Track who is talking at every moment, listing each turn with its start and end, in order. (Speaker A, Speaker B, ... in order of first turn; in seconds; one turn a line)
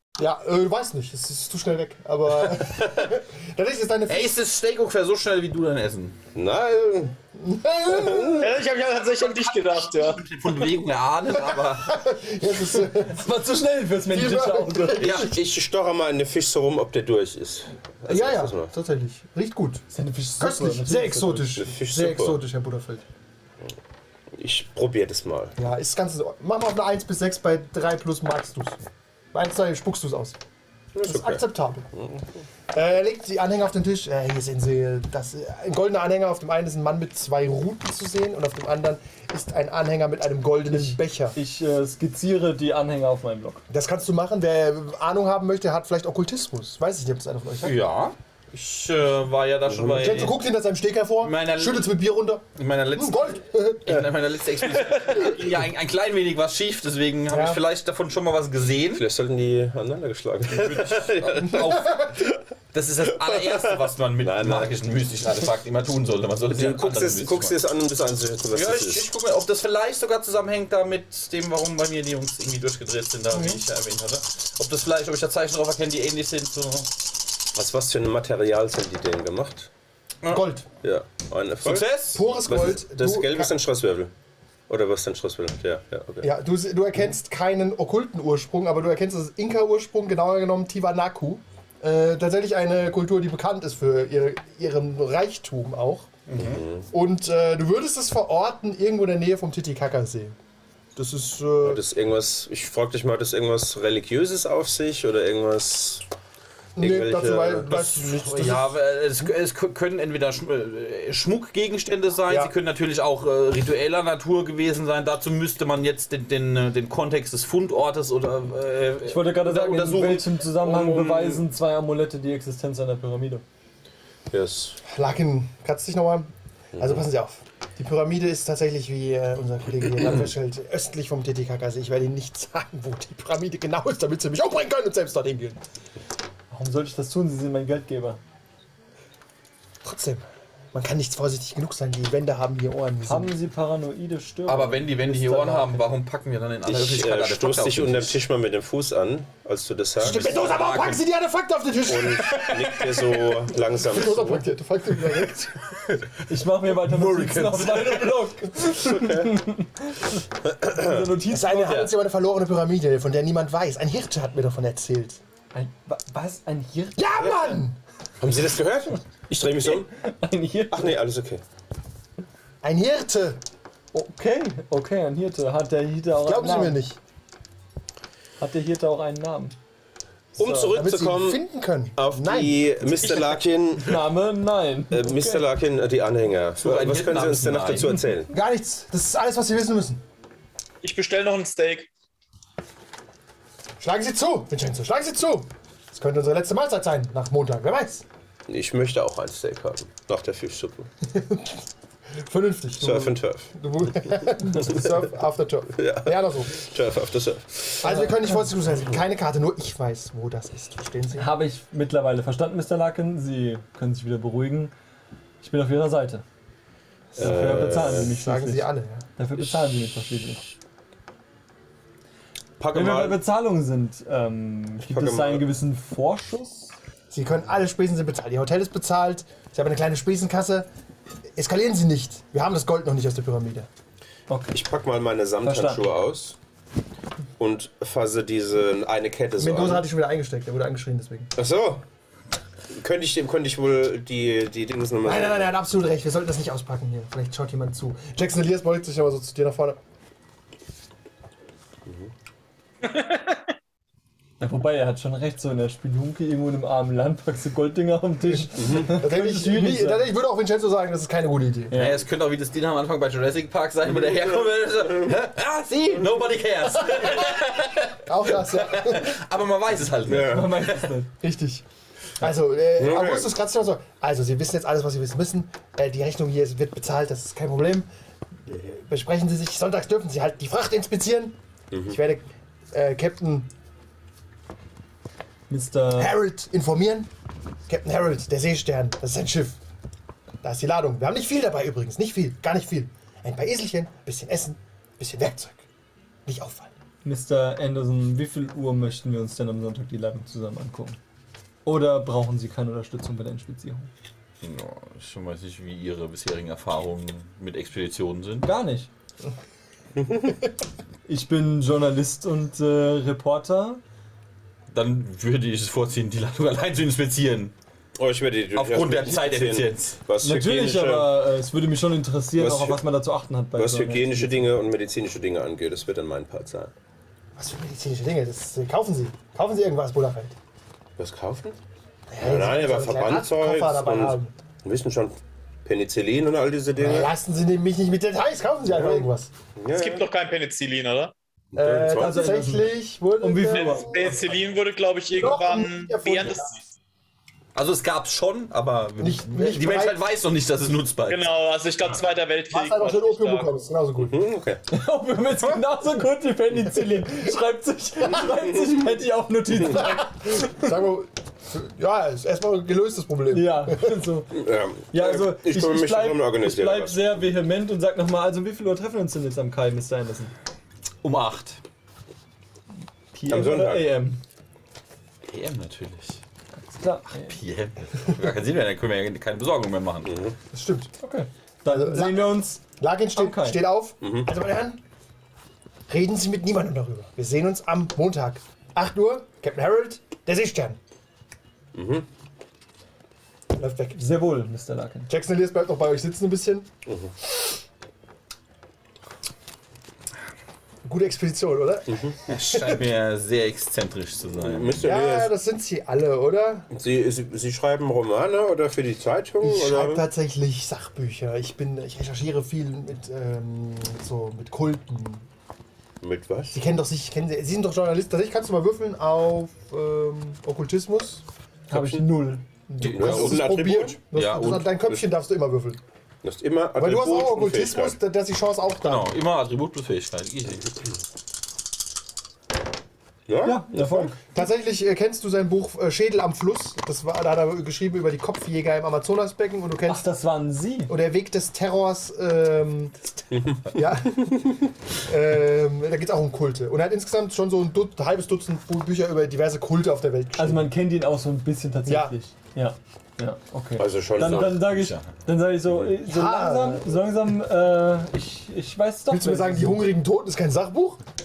Speaker A: 0.2-4.3
Speaker B: 4.1-6.2
Speaker C: 6.3-7.1
Speaker A: 7.3-8.5
Speaker C: 7.9-8.6
Speaker D: 8.4-10.3
Speaker B: 9.9-12.0
Speaker A: 11.5-13.3
Speaker E: 13.0-15.0
Speaker A: 14.1-15.3
Speaker B: 15.0-15.3
Speaker C: 15.0-18.7
Speaker A: 18.1-19.9
Speaker E: 19.9-21.6
Speaker A: 20.4-23.0
Speaker C: 21.6-22.4
Speaker C: 24.4-25.5
Speaker A: 25.6-28.8
Speaker A: 29.3-30.4
Speaker C: 30.9-32.2
Speaker A: 31.0-31.9
Speaker A: 32.7-41.4
Speaker E: 40.7-43.6
Speaker A: 43.7-47.8
Speaker B: 47.6-50.4
Speaker C: 49.7-50.0
Speaker A: 49.8-52.4
Speaker B: 51.2-52.0
Speaker B: 52.5-59.0
Speaker A: 52.9-53.9
Speaker A: 57.3-57.6
Speaker C: 58.9-61.8
Speaker B: 60.5-67.5
Speaker A: 61.5-62.1
Speaker C: 63.2-64.8
Speaker C: 66.5-69.0
Speaker B: 68.5-76.9
Speaker A: 73.3-73.6
Speaker C: 77.5-79.7
Speaker A: 80.3-80.7
Speaker C: 80.8-84.1
Speaker B: 81.6-82.2
Speaker A: 82.1-83.5
Speaker C: 84.7-86.3
Speaker A: 86.2-96.1
Speaker B: 96.3-96.6
Speaker C: 96.4-96.9
Speaker A: 96.9-100.3
Speaker A: 101.0-101.8
Speaker C: 101.6-106.0
Speaker A: 106.8-108.7
Speaker C: 106.8-107.7
Speaker B: 107.7-120.3
Speaker A: 112.3-112.5
Speaker E: 119.0-123.4
Speaker C: 120.6-121.5
Speaker C: 124.3-124.8
Speaker A: 124.8-135.6
Speaker C: 126.8-127.0
Speaker E: 136.5-138.2
Speaker A: 139.8-143.3
Speaker E: 143.1-145.8
Speaker B: 144.4-148.2
Speaker C: 146.7-150.4
Speaker A: 150.0-155.6
Speaker B: 150.0-151.0
Speaker C: 151.9-154.5
Speaker E: 156.3-160.1
Speaker B: 156.8-158.0
Speaker C: 158.8-159.5
Speaker C: 160.4-161.2
Speaker E: 160.7-161.9
Speaker A: 161.3-165.2
Speaker B: 161.5-161.9
Speaker E: 165.5-167.0
Speaker A: 166.9-167.8
Speaker C: 167.2-167.6
Speaker C: 168.2-169.9
Speaker E: 169.6-171.0
Speaker C: 170.7-171.4
Speaker A: 172.6-173.4
Speaker E: 173.9-176.8
Speaker A: 176.2-177.0
Speaker E: 178.4-179.5
Speaker C: 180.3-181.4
Speaker E: 180.4-180.8
Speaker A: 180.7-183.3
Speaker C: 181.9-184.0
Speaker E: 183.8-185.4
Speaker C: 184.9-188.3
Speaker B: 186.6-188.1
Speaker A: 188.3-190.0
Speaker D: 190.8-191.9
Speaker A: 193.8-198.0
Speaker C: 198.5-200.9
Speaker A: 201.1-201.6
Speaker A: 202.2-206.6
Speaker C: 202.8-203.5
Speaker C: 204.6-204.9
Speaker C: 205.8-207.8
Speaker A: 207.8-211.3
Speaker E: 207.8-208.2
Speaker E: 211.1-214.7
Speaker E: 215.4-216.2
Speaker C: 217.1-218.2
Speaker E: 217.1-220.5
Speaker A: 217.2-219.1
Speaker C: 222.6-223.2
Speaker E: 222.7-226.7
Speaker C: 224.8-225.5
Speaker A: 227.1-230.7
Speaker A: 231.3-233.7
Speaker E: 234.3-234.6
Speaker C: 234.5-236.4
Speaker E: 235.4-235.8
Speaker C: 237.4-239.8
Speaker A: 239.4-241.3
Speaker C: 241.3-241.8
Speaker C: 242.7-245.5
Speaker A: 245.0-249.8
Speaker C: 251.8-252.1
Speaker D: 252.8-253.4
Speaker E: 254.4-260.0
Speaker A: 258.3-261.8
Speaker C: 258.6-259.0
Speaker E: 261.7-262.0
Speaker B: 261.7-271.0
Speaker C: 263.9-265.1
Speaker A: 268.0-269.2
Speaker C: 270.1-270.7
Speaker E: 270.2-271.1
Speaker A: 271.2-271.6
Speaker A: 272.2-277.9
Speaker C: 272.8-273.3
Speaker A: 278.4-283.5
Speaker C: 281.7-282.0
Speaker E: 285.5-286.1
Speaker A: 285.9-287.1
Speaker A: 287.7-289.6
Speaker A: 290.4-295.6
Speaker A: 296.2-296.7
Speaker E: 297.0-301.0
Speaker E: 301.6-303.9
Speaker B: 304.4-308.5
Speaker E: 308.4-308.9
Speaker C: 309.9-310.3
Speaker E: 311.1-313.8
Speaker B: 314.7-317.5
Speaker C: 318.0-321.3
Speaker B: 318.5-320.0
Speaker E: 320.2-324.6
Speaker C: 322.3-322.8
Speaker C: 323.5-326.7
Speaker A: 327.4-330.3
Speaker C: 331.0-331.6
Speaker A: 332.1-334.3
Speaker C: 332.2-337.1
Speaker A: 336.8-339.3
Speaker C: 338.7-340.1
Speaker D: 339.7-341.1
Speaker C: 341.5-342.3
Speaker A: 341.6-344.2
Speaker E: 341.9-344.1
Speaker D: 343.5-346.6
Speaker A: 345.1-346.6
Speaker B: 347.5-351.3
Speaker A: 349.0-350.0
Speaker D: 351.1-353.5
Speaker A: 352.5-354.2
Speaker C: 354.0-354.6
Speaker E: 354.7-360.6
Speaker A: 359.7-363.9
Speaker E: 363.3-370.3
Speaker C: 364.3-367.2
Speaker B: 371.0-371.6
Speaker E: 373.1-374.2
Speaker C: 373.3-374.0
Speaker B: 375.2-376.2
Speaker E: 376.7-377.3
Speaker B: 377.1-380.1
Speaker C: 380.0-380.4
Speaker A: 380.5-380.9
Speaker E: 381.0-383.6
Speaker A: 381.7-384.8
Speaker C: 384.0-384.3
Speaker A: 385.9-390.8
Speaker C: 391.7-392.1
Speaker A: 393.5-394.0
Speaker E: 393.9-395.1
Speaker A: 395.1-396.7
Speaker C: 396.9-397.1
Speaker A: 400.8-402.8
Speaker C: 401.9-402.1
Speaker B: 402.3-404.8
Speaker C: 404.3-405.3
Speaker A: 404.8-406.7
Speaker C: 406.7-410.0
Speaker A: 409.4-415.2
Speaker C: 416.0-416.6
Speaker A: 416.5-421.2
Speaker C: 421.7-422.1
Speaker E: 421.7-422.4
Speaker A: 422.7-425.8
Speaker C: 422.8-424.0
Speaker B: 424.1-424.8
Speaker C: 426.2-428.0
Speaker A: 426.8-429.1
Speaker B: 428.8-430.7
Speaker C: 433.3-434.1
Speaker E: 433.4-434.2
Speaker A: 434.3-440.1
Speaker E: 439.9-440.9
Speaker A: 440.9-450.7
Speaker C: 443.3-443.8
Speaker E: 450.4-459.9
Speaker A: 451.9-452.1
Speaker C: 453.8-454.7
Speaker B: 454.7-455.1
Speaker A: 456.0-456.9
Speaker A: 459.1-461.0